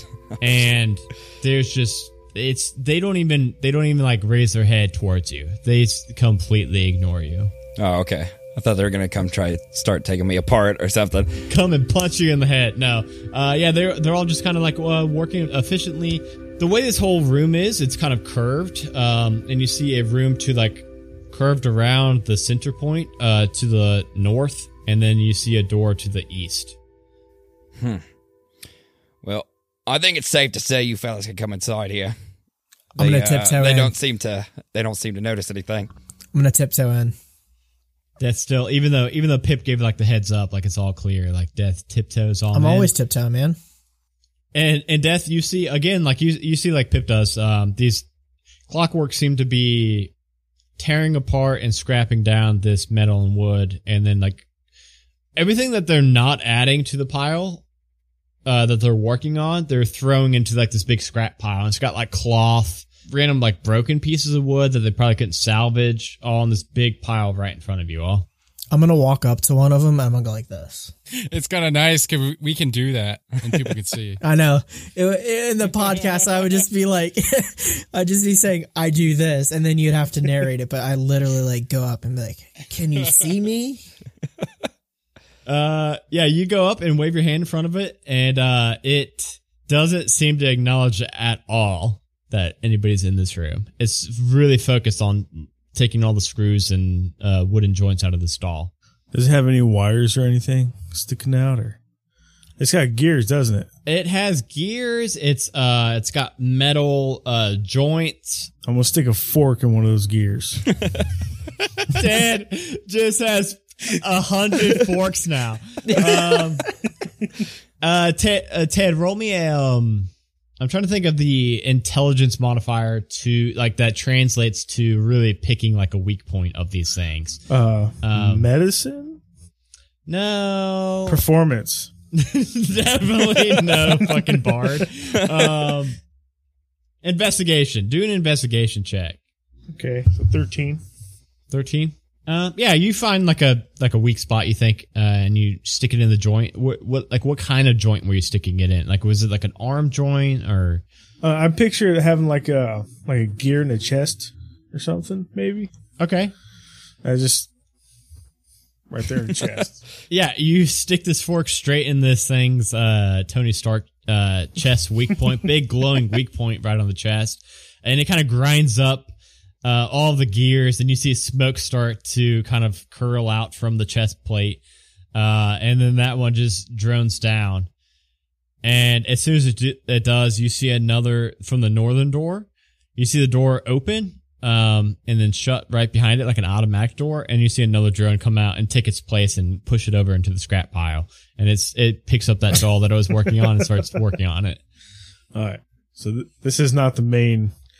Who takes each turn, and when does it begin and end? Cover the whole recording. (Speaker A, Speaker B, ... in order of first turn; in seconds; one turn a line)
Speaker A: 0.4-7.5
Speaker B: 7.8-11.4
Speaker A: 11.5-26.8
Speaker B: 27.8-28.0
Speaker B: 29.2-32.1
Speaker C: 33.0-33.9
Speaker B: 33.0-35.9
Speaker C: 36.3-37.1
Speaker A: 38.2-42.9
Speaker C: 42.5-43.6
Speaker A: 44.5-48.0
Speaker A: 48.7-50.1
Speaker A: 50.8-54.5
Speaker A: 55.4-57.6
Speaker A: 58.5-68.3
Speaker C: 68.7-70.9
Speaker D: 71.3-74.2
Speaker C: 74.2-83.8
Speaker A: 85.5-98.7
Speaker E: 99.1-101.8
Speaker E: 102.6-103.7
Speaker A: 103.9-108.5
Speaker E: 108.7-110.6
Speaker A: 111.9-116.6
Speaker A: 117.8-127.4
Speaker E: 127.5-129.2
Speaker A: 128.0-128.5
Speaker A: 130.1-131.2
Speaker E: 131.1-131.9
Speaker A: 132.1-136.0
Speaker A: 137.0-139.2
Speaker E: 139.7-140.8
Speaker A: 141.5-150.8
Speaker E: 151.2-155.7
Speaker A: 156.0-156.3
Speaker E: 157.0-157.5
Speaker E: 158.9-159.8
Speaker A: 160.1-169.1
Speaker A: 169.6-174.6
Speaker A: 175.1-177.7
Speaker A: 178.6-194.6
Speaker E: 195.3-197.5